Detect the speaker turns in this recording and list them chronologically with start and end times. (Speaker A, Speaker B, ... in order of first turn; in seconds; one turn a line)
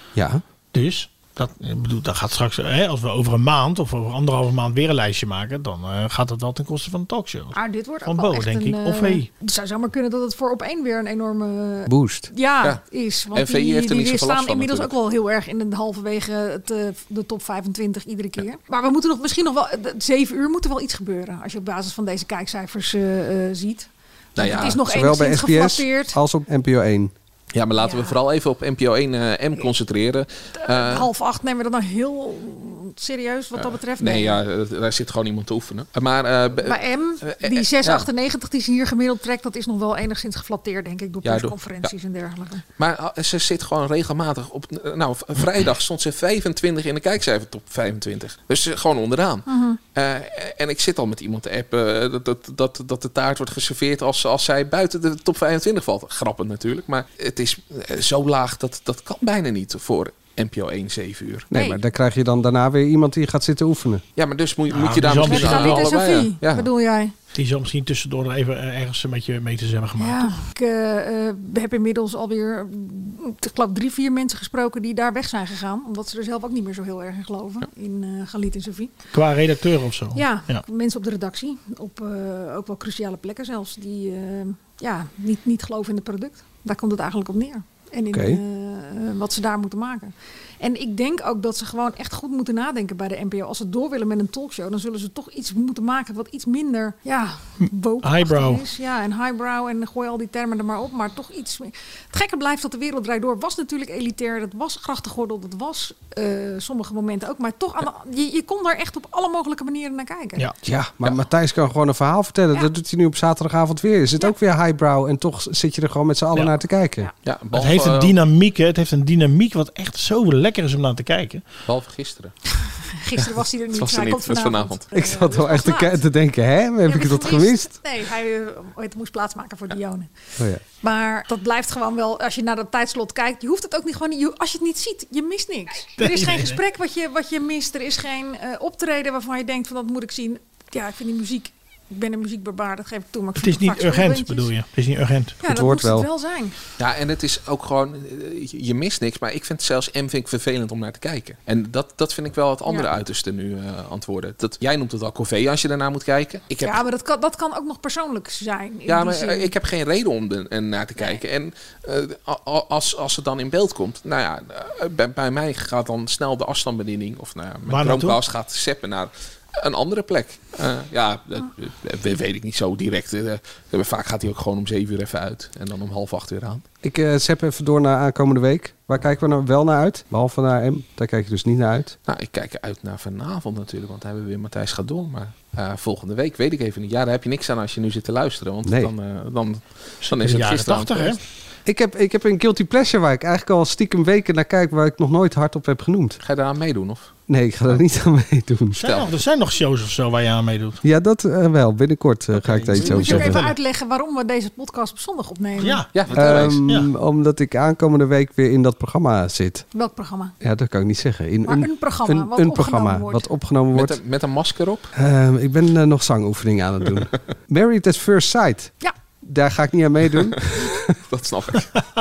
Speaker A: 0.1-0.4
Speaker B: 0.7-9.3
Speaker C: 7.5-26.2
Speaker A: 11.9-12.3
Speaker D: 13.3-14.9
Speaker D: 24.4-24.8
Speaker A: 24.8-27.1
Speaker D: 27.5-31.1
Speaker C: 27.8-28.2
Speaker C: 30.6-34.4
Speaker D: 33.5-38.1
Speaker C: 36.6-42.6
Speaker D: 41.2-41.9
Speaker D: 42.8-61.6
Speaker C: 49.5-49.8
Speaker A: 61.5-64.0
Speaker C: 61.5-61.8
Speaker D: 64.2-66.7
Speaker B: 64.7-65.9
Speaker C: 65.2-67.1
Speaker B: 67.3-70.3
Speaker C: 70.0-78.9
Speaker B: 79.1-80.6
Speaker C: 80.1-110.4
Speaker A: 88.1-88.4
Speaker B: 97.6-98.6
Speaker A: 110.6-117.1
Speaker D: 117.2-118.1
Speaker B: 117.5-121.4
Speaker D: 121.7-122.3
Speaker C: 122.5-126.0
Speaker D: 123.7-124.9
Speaker A: 124.9-127.7
Speaker C: 126.8-130.1
Speaker C: 130.8-144.5
Speaker B: 136.0-136.6
Speaker B: 143.4-145.3
Speaker C: 145.4-146.5
Speaker A: 145.4-146.1
Speaker D: 146.8-156.8
Speaker C: 156.6-159.5
Speaker D: 158.9-176.6
Speaker B: 167.7-168.2
Speaker A: 176.8-181.9
Speaker D: 182.1-191.2
Speaker A: 188.6-188.9
Speaker B: 190.1-191.2
Speaker A: 191.7-196.2
Speaker D: 196.2-197.1
Speaker A: 197.3-198.8
Speaker B: 198.8-200.8
Speaker A: 200.8-203.4
Speaker B: 202.4-203.5
Speaker C: 202.8-205.8
Speaker B: 205.6-206.9
Speaker D: 205.9-206.6
Speaker A: 206.1-209.6
Speaker C: 209.7-210.3
Speaker A: 210.4-214.0
Speaker C: 211.4-213.3
Speaker D: 213.7-214.9
Speaker A: 214.9-220.9
Speaker D: 221.1-221.8